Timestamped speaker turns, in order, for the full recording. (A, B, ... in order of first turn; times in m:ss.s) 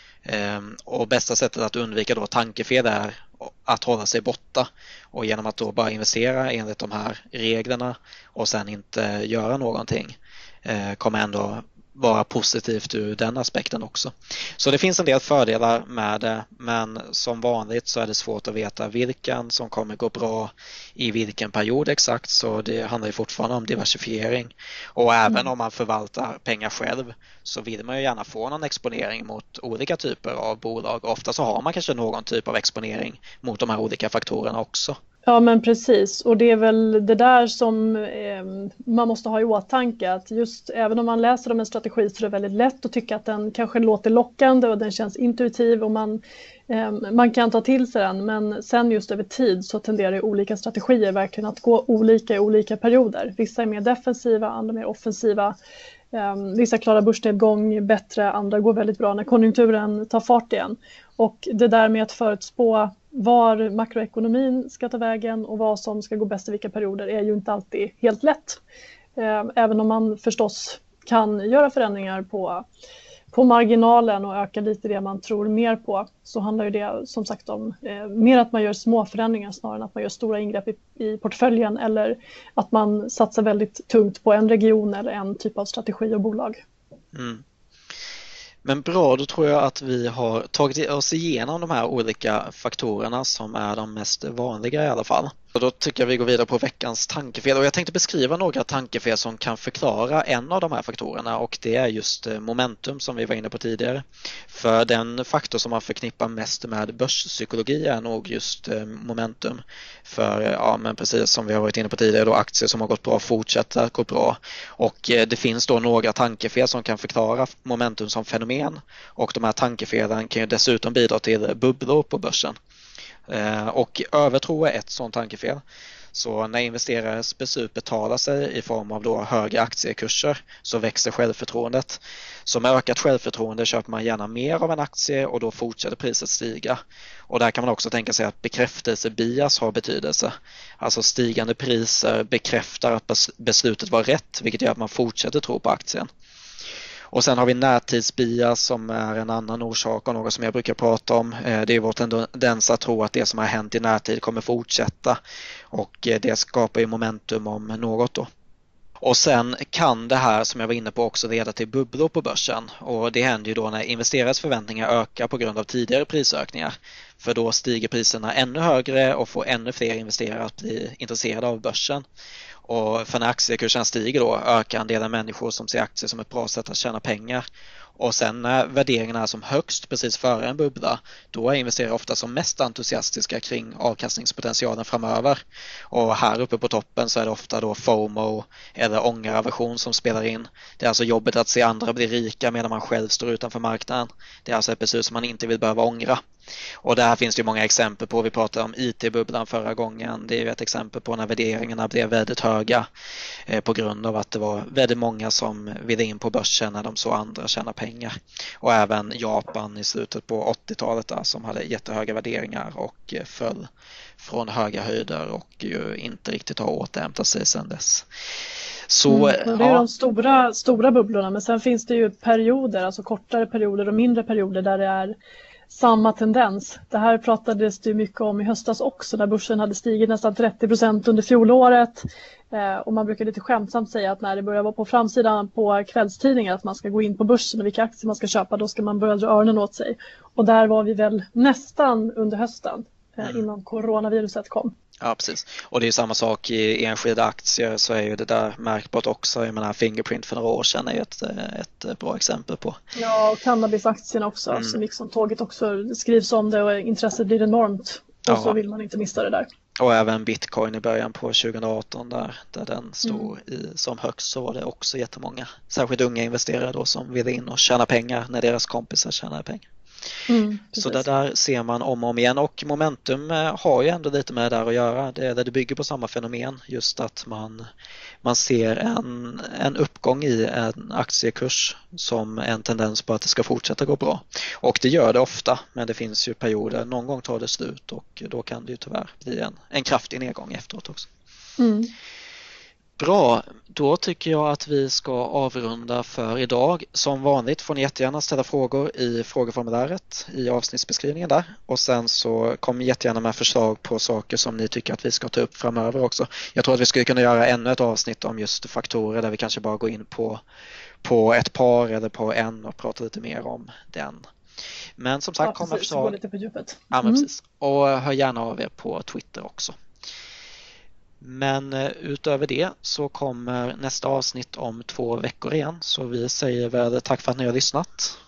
0:00.2-0:35.0 A
0:35.3-0:55.6 B
0:56.1-1:08.6 B
1:09.2-1:12.6 B
1:13.3-1:26.6 B
1:27.1-1:27.4 A
1:28.6-2:02.6 A
2:03.3-2:05.6 A
2:06.1-2:26.1 A
2:27.1-2:35.2 A
2:35.7-2:38.3 A
2:39.0-2:52.0 A
2:52.6-2:57.4 A
2:58.0-3:16.2 A
3:16.8-3:22.9 A
3:23.5-3:38.1 A
3:38.9-3:39.9 A
3:39.1-3:45.2 B
3:45.7-4:04.7 B
4:05.0-4:12.8 A
4:13.0-4:19.5 B
4:14.5-4:14.8 A
4:18.3-4:18.6 A
4:19.8-4:29.7 A
4:23.0-4:23.3 B
4:30.3-4:31.0 B
4:30.8-4:37.6 A
4:38.2-4:51.1 A
4:51.6-4:51.9 B
4:53.0-5:10.4 A
5:11.0-5:14.2 A
5:15.0-5:16.2 A
5:15.4-5:17.3 B
5:16.9-5:19.8 A
5:21.2-5:28.2 A